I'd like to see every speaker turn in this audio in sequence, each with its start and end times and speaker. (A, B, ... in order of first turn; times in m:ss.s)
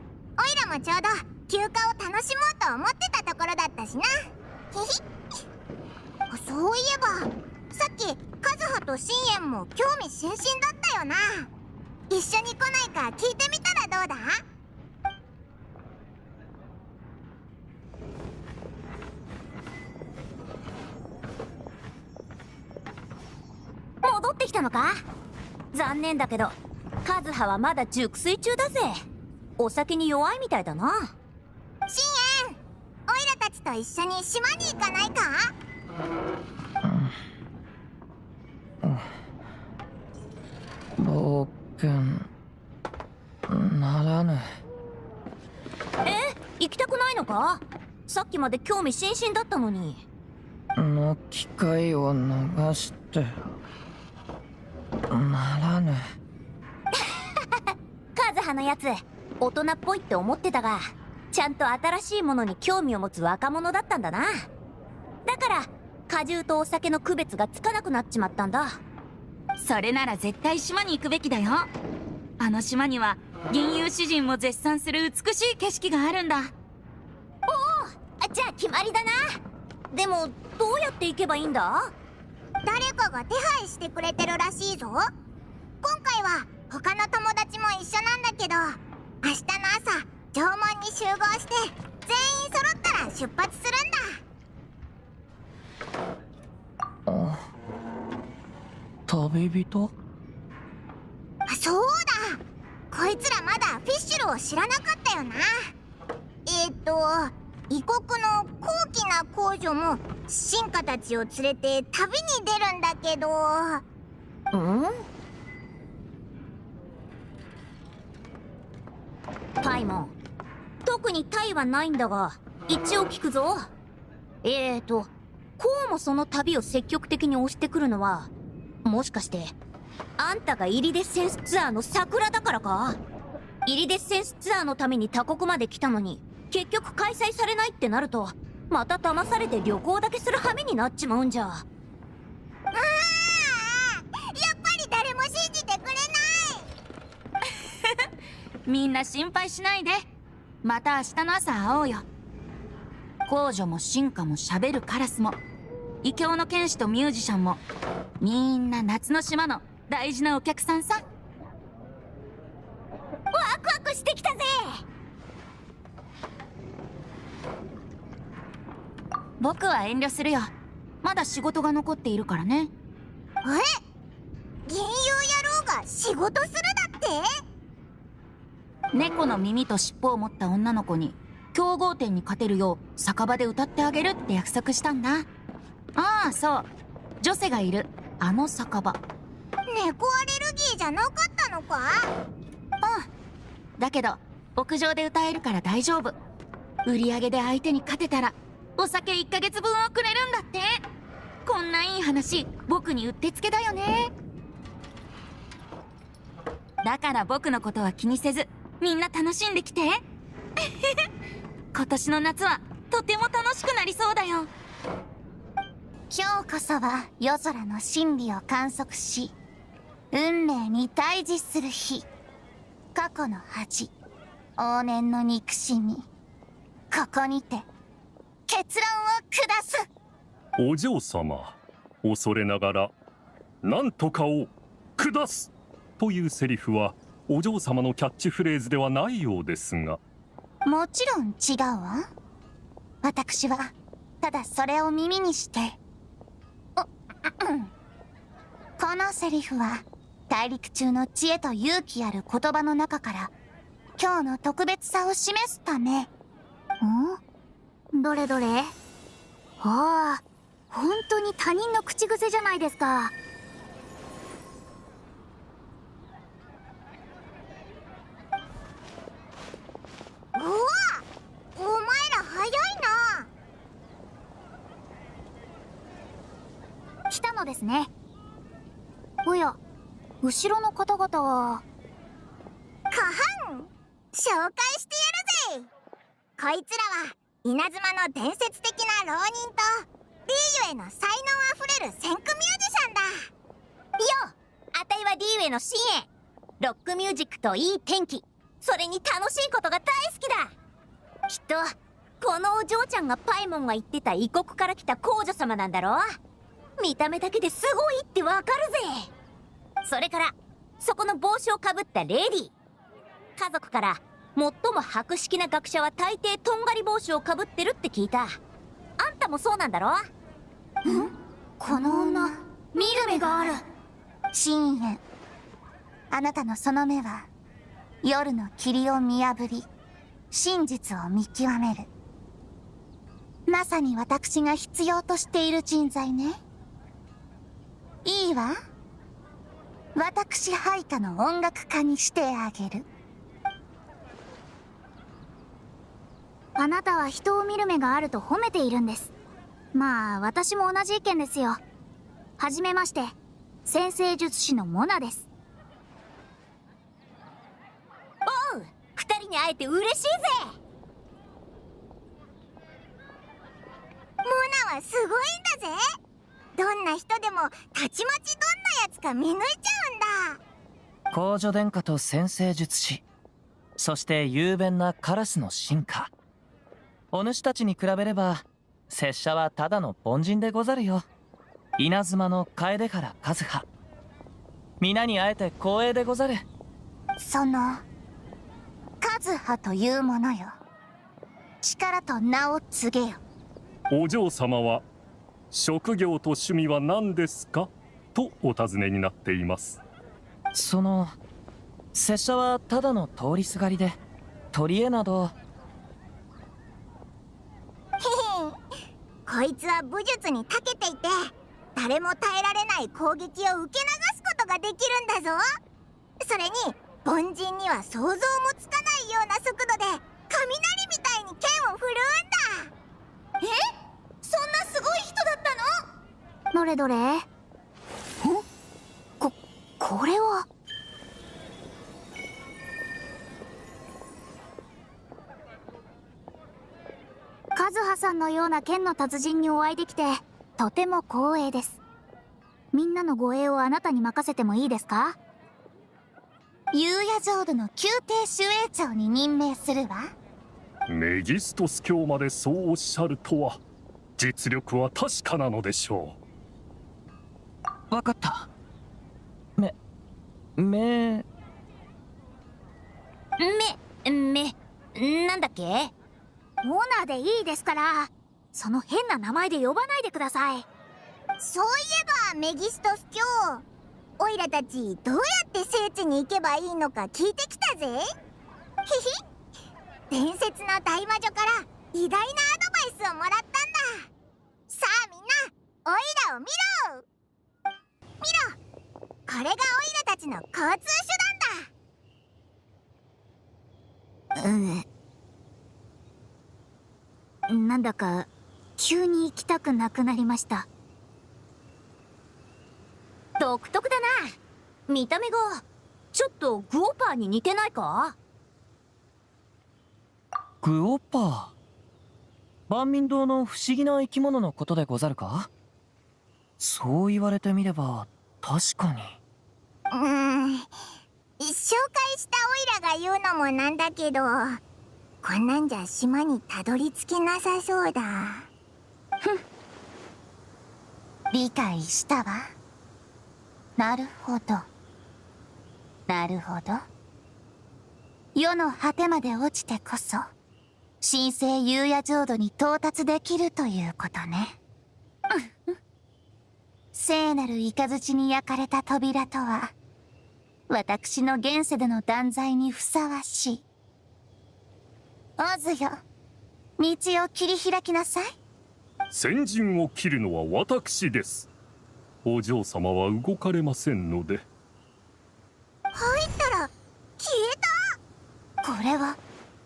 0:00.4-0:04.1 A
0:04.7-0:05.0 A
0:06.3-0:11.5 A
0:12.1-0:14.4 A
0:24.0-0:25.0 B
0:25.7-0:29.0 B
0:29.6-0:31.1 B
0:31.9-0:32.6 A
0:33.1-0:35.5 A
0:41.0-0:42.2 C
0:43.5-0:44.4 C
0:46.0-0:50.0 B
0:50.8-0:53.3 C
0:55.1-0:56.0 C
0:56.9-1:04.5 B
1:05.3-1:08.8 B
1:09.6-1:11.7 D
1:12.4-1:16.5 D
1:17.5-1:19.4 B
1:19.9-1:21.9 B
1:22.7-1:25.1 A
1:25.8-1:34.2 A
1:37.1-1:37.4 C
1:39.1-1:39.9 C
1:41.5-1:42.4 A
1:42.9-1:45.7 A
1:46.5-1:53.8 A
1:54.5-1:55.0 B
1:59.6-2:00.1 B
2:00.8-2:03.7 B
2:04.4-2:08.3 B
2:08.8-2:09.5 B
2:10.2-2:13.0 B
2:13.7-2:21.6 B
2:22.7-2:26.7 A
2:28.7-2:30.1 D
2:30.6-2:32.1 D
2:33.3-2:35.4 D
2:36.0-2:37.6 D
2:38.2-2:41.0 D
2:43.3-2:44.8 B
2:49.4-2:50.5 D
2:51.0-2:52.7 D
2:53.4-2:53.7 A
2:54.7-2:57.2 A
2:58.9-3:05.3 D
3:06.0-3:06.7 D
3:07.2-3:09.0 D
3:09.7-3:12.1 A
3:13.8-3:16.2 D
3:16.8-3:20.8 D
3:21.4-3:24.1 D
3:26.8-3:30.0 D
3:31.7-3:34.5 D
3:36.1-3:39.3 E
3:40.1-3:42.1 E
3:42.9-3:43.9 E
3:44.6-3:46.1 E
3:46.9-3:47.7 E
3:48.5-3:49.9 E
3:50.6-3:52.9 F
3:53.6-4:00.0 F
4:00.6-4:02.1 E
4:03.0-4:05.8 E
4:06.8-4:07.7 E
4:08.8-4:13.3 E
4:14.0-4:16.1 E
4:16.8-4:17.2 G
4:17.9-4:18.7 G
4:19.6-4:23.1 G
4:30.4-4:31.0 A
4:31.6-4:33.3 A
4:37.1-4:37.9 G
4:39.2-4:39.6 G
4:40.2-4:41.6 G
4:42.9-4:45.7 A
4:46.4-4:53.3 A
4:54.0-4:56.1 B
4:56.6-5:00.5 B
5:01.3-5:06.2 B
5:06.8-5:09.1 B
5:09.8-5:12.5 B
5:13.4-5:18.4 B
5:19.0-5:20.1 B
5:21.6-5:23.6 G
5:21.7-5:22.3 E
5:24.3-5:25.0 E
5:26.1-5:27.3 E
5:28.0-5:29.7 E
5:30.3-5:31.9 E
5:33.5-5:36.4 E
5:38.0-5:38.6 E
5:40.0-5:42.9 E
5:46.6-5:49.1 G
5:49.7-5:51.6 G
5:52.4-5:55.3 G
5:58.3-6:00.5 B
6:04.2-6:05.8 A
6:06.6-6:10.4 A
6:11.1-6:13.0 C
6:13.8-6:16.1 C
6:17.1-6:21.0 C
6:21.8-6:23.7 C
6:24.8-6:26.4 C
6:27.2-6:27.8 E
6:29.0-6:30.5 E
6:31.6-6:33.2 E
6:33.9-6:34.8 F
6:35.5-6:39.8 F
6:40.5-6:41.2 C
6:41.9-6:44.0 C
6:44.5-6:45.3 C
6:48.0-6:48.6 A
6:49.3-6:55.4 A
6:56.2-7:02.7 A
7:04.2-7:05.6 G
7:06.5-7:07.3 G
7:09.2-7:10.5 G
7:17.6-7:21.8 G
7:22.7-7:25.2 G
7:26.7-7:30.1 E
7:30.9-7:33.6 F
7:34.2-7:36.2 F
7:37.9-7:38.5 C
7:40.6-7:41.2 C
7:43.4-7:45.9 B
7:46.6-7:50.7 G
7:51.4-7:53.6 A
7:54.2-7:58.1 A
7:58.9-7:59.2 A
8:00.1-8:04.1 A
8:04.7-8:07.0 A
8:08.2-8:08.6 A
8:09.3-8:11.7 A
8:14.4-8:14.8 G
8:17.5-8:20.7 G
8:23.4-8:24.4 B
8:24.9-8:25.6 B
8:26.1-8:28.2 B
8:30.6-8:31.5 C
8:32.7-8:35.5 C
8:36.6-8:39.2 C
8:39.9-8:40.7 A
8:41.4-8:44.6 A
8:45.2-8:48.5 A
8:51.3-8:52.5 E
8:53.8-8:54.7 E
8:56.1-8:56.8 E
8:58.4-9:00.3 E
9:01.0-9:04.6 E
9:05.3-9:05.8 E
9:06.9-9:09.7 E
9:10.7-9:13.6 E
9:15.4-9:16.0 E
9:16.8-9:18.4 E
9:19.1-9:21.5 F
9:22.2-9:24.5 F
9:25.9-9:27.8 A
9:28.6-9:29.2 E